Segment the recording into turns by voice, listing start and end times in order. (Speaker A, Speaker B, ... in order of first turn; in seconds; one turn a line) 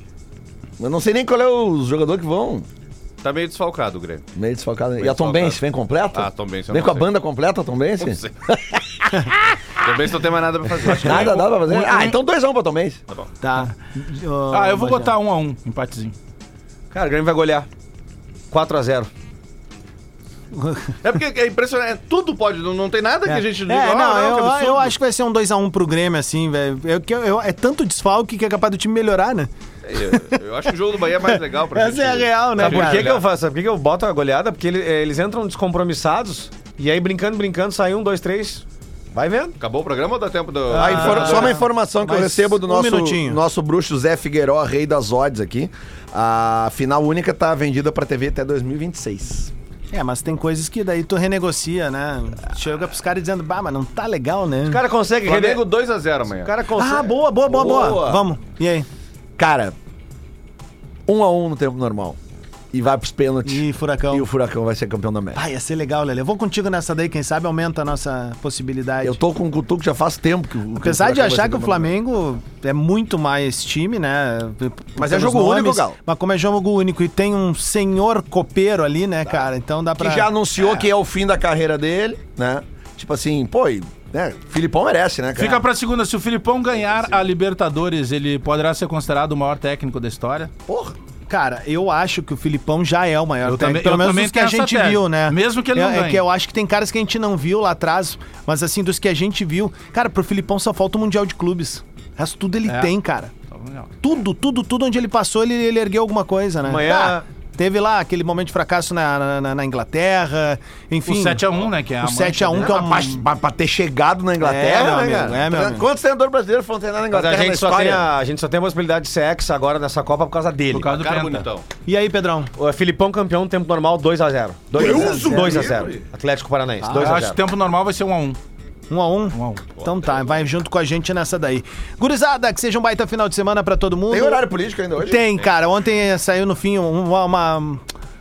Speaker A: 0.8-2.7
Speaker B: 3.2-4.3
Speaker A: 4.3-9.6
Speaker B: 5.0-5.6
Speaker B: 6.1-7.1
Speaker B: 8.0-8.3
Speaker B: 9.8-11.5
Speaker A: 10.8-13.0
Speaker C: 11.6-12.1
Speaker D: 13.4-15.1
Speaker C: 14.5-16.1
Speaker E: 16.9-17.7
Speaker E: 18.5-19.1
Speaker D: 20.6-20.9
Speaker B: 21.0-25.0
Speaker D: 23.3-30.4
Speaker B: 29.9-33.2
Speaker D: 31.1-33.1
Speaker E: 32.6-39.6
Speaker B: 39.6-41.5
Speaker D: 40.7-43.4
Speaker A: 40.7-49.5
Speaker D: 49.9-54.8
Speaker E: 54.7-55.7
Speaker B: 55.2-56.5
Speaker E: 56.3-57.2
Speaker D: 56.8-58.9
Speaker A: 57.5-58.2
Speaker A: 59.4-59.8
Speaker A: 61.1-62.2
Speaker A: 62.7-65.4
Speaker D: 63.5-64.3
Speaker D: 65.3-69.2
Speaker A: 69.0-71.9
Speaker D: 70.8-80.3
Speaker A: 75.0-76.0
Speaker A: 80.0-85.6
Speaker C: 85.4-90.5
Speaker A: 90.7-91.0
Speaker D: 91.3-103.3
Speaker C: 93.5-96.2
Speaker C: 102.7-102.9
Speaker C: 103.5-103.9
Speaker D: 104.0-111.5
Speaker E: 106.6-107.2
Speaker C: 111.1-112.8
Speaker D: 112.0-113.2
Speaker A: 112.6-118.1
Speaker D: 114.4-115.9
Speaker E: 117.1-120.9
Speaker C: 120.7-121.5
Speaker B: 120.8-121.7
Speaker D: 121.9-122.5
Speaker E: 122.6-127.4
Speaker A: 124.7-126.0
Speaker D: 124.8-125.8
Speaker D: 126.8-127.1
Speaker C: 126.9-128.4
Speaker D: 128.9-134.4
Speaker C: 129.3-129.7
Speaker B: 129.8-130.1
Speaker A: 134.1-135.2
Speaker D: 135.0-137.8